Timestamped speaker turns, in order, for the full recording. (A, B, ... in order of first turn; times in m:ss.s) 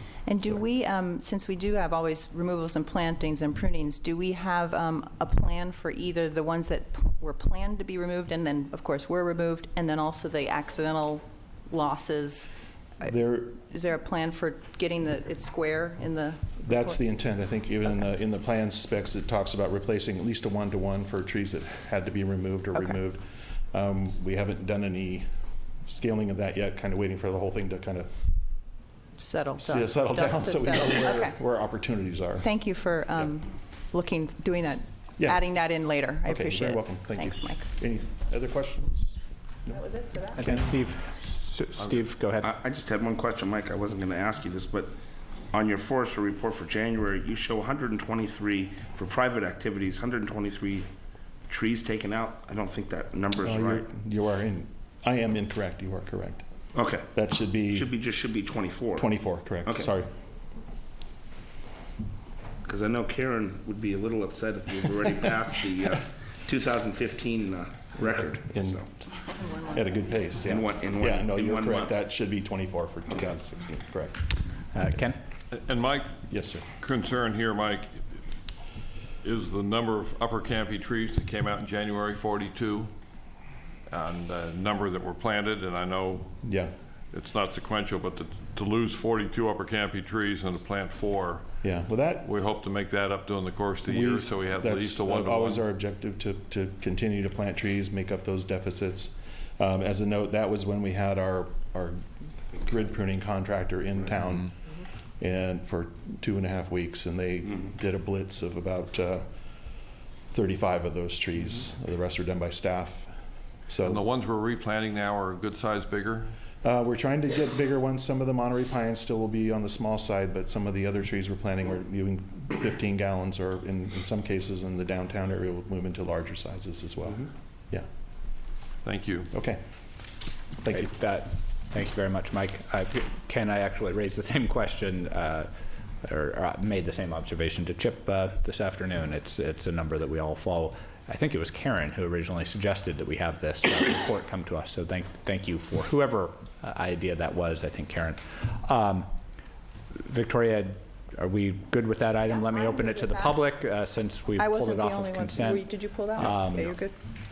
0:00.2-0:17.0 A
0:13.0-0:13.6 B
0:16.6-0:28.1 B
0:29.2-0:31.4 A
0:29.6-0:32.5 B
0:32.4-0:37.6 A
0:35.2-0:35.4 B
0:36.2-0:39.8 B
0:39.8-0:40.2 A
0:40.3-0:42.5 C
0:40.4-0:40.7 B
0:42.4-0:44.9 D
0:45.5-0:50.9 D
0:51.5-0:53.9 D
0:53.4-0:56.4 B
0:56.8-0:57.1 D
0:57.0-0:57.9 B
0:57.7-0:59.9 D
0:59.0-1:00.1 B
1:02.6-1:08.9 D
1:08.0-1:14.2 B
1:09.2-1:09.9 A
1:10.4-1:11.9 D
1:14.7-1:15.2 C
1:15.5-1:18.2 E
1:16.3-1:16.7 B
1:19.2-1:22.9 E
1:23.9-1:26.6 E
1:26.4-1:26.7 B
1:27.1-1:35.6 E
1:31.6-1:32.3 B
1:33.9-1:42.0 B
1:42.6-1:44.5 B
1:45.2-1:49.2 B
1:50.3-1:53.1 B
1:53.7-1:54.0 B
1:53.8-1:56.3 E
1:56.6-2:07.9 B
2:08.8-2:09.3 E
2:09.3-2:09.6 B
2:10.6-2:10.9 B
2:10.7-2:15.5 C
2:16.0-2:29.1 C
2:30.0-2:36.8 C
2:32.3-2:33.5 A
2:34.4-2:36.9 A